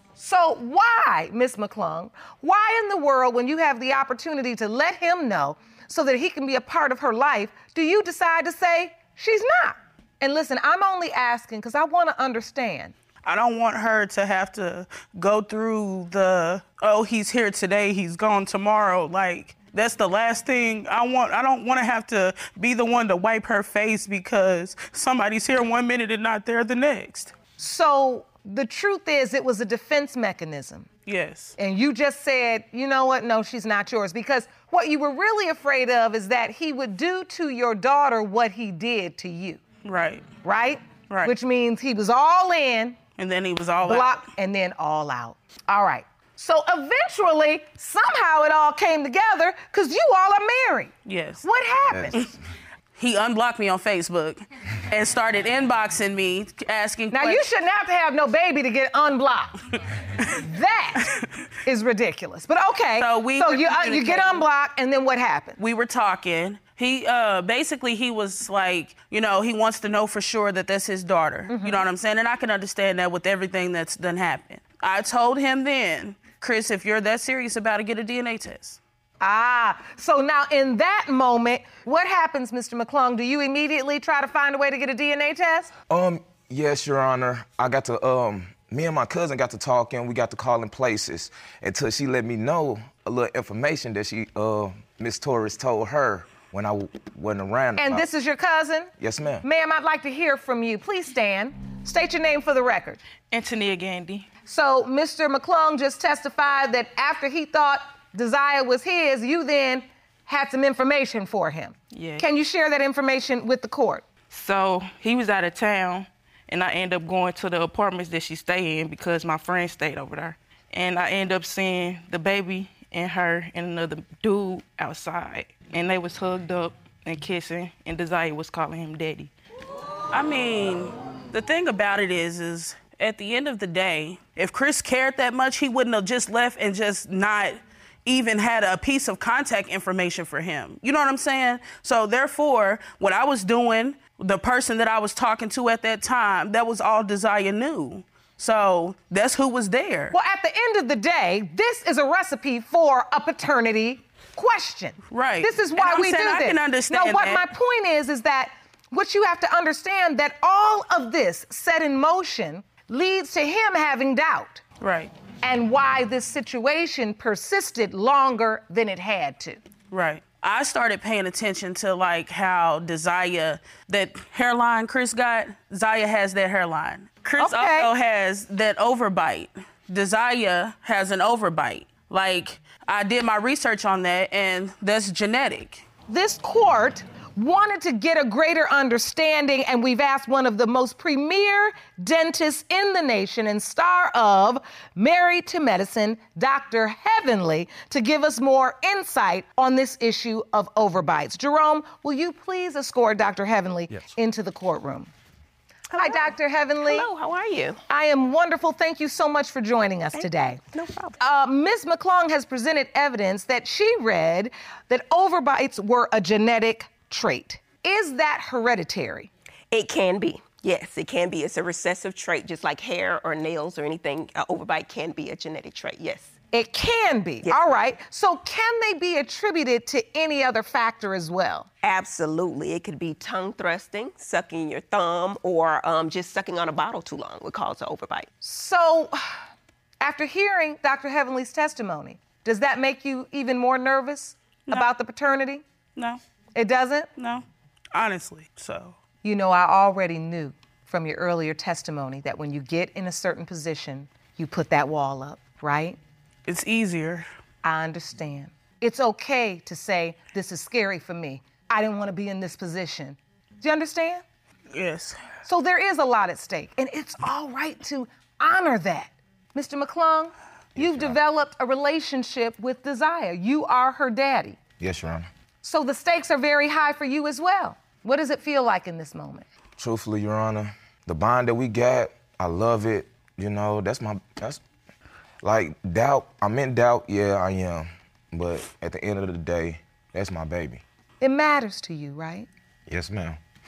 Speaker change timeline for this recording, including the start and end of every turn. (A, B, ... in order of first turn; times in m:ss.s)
0:00.2-0:12.9 A
0:13.2-0:27.3 B
0:27.6-0:30.9 A
0:31.0-0:31.5 B
0:31.6-0:39.6 A
0:39.8-0:40.2 B
0:40.4-0:43.0 A
0:43.2-0:44.2 B
0:43.8-0:50.9 A
0:51.0-0:51.4 B
0:51.4-0:52.2 A
0:51.9-0:52.2 C
0:53.0-0:57.4 B
0:57.1-0:59.6 A
1:00.3-1:01.1 A
1:01.6-1:05.6 A
1:03.0-1:04.5 B
1:05.6-1:18.8 B
1:11.5-1:11.9 A
1:19.2-1:25.7 A
1:25.9-1:38.0 C
1:37.8-1:38.9 A
1:39.0-1:39.4 C
1:39.4-1:43.0 A
1:43.3-1:44.3 D
1:44.4-1:54.0 A
1:51.9-1:52.2 D
1:54.3-2:09.3 D
2:10.1-2:30.1 B
2:30.1-2:44.6 A
2:35.1-2:37.5 B
2:44.8-2:45.1 B
2:45.4-2:49.6 A
2:49.9-3:05.8 B
2:57.4-2:57.9 A
3:06.1-3:25.1 A
3:25.9-3:27.8 E
3:26.0-3:27.1 A
3:27.9-3:30.6 A
3:30.1-3:31.2 E
3:31.2-3:39.3 A
3:39.7-3:46.3 E
3:46.5-3:51.7 A
3:47.4-3:47.7 E
3:51.8-3:58.3 E
3:58.4-3:59.2 A
4:00.0-4:05.6 A
4:06.5-4:07.1 A
4:07.2-4:09.0 B
4:09.2-4:16.0 A
4:16.5-4:17.2 B
4:17.6-4:24.2 A
4:24.7-4:25.2 B
4:25.4-4:34.6 A
4:30.8-4:31.2 C
4:34.8-4:35.3 C
4:35.6-4:39.4 A
4:39.8-4:44.6 C
4:45.4-4:50.8 C
4:51.2-4:52.5 A
4:52.9-4:53.4 C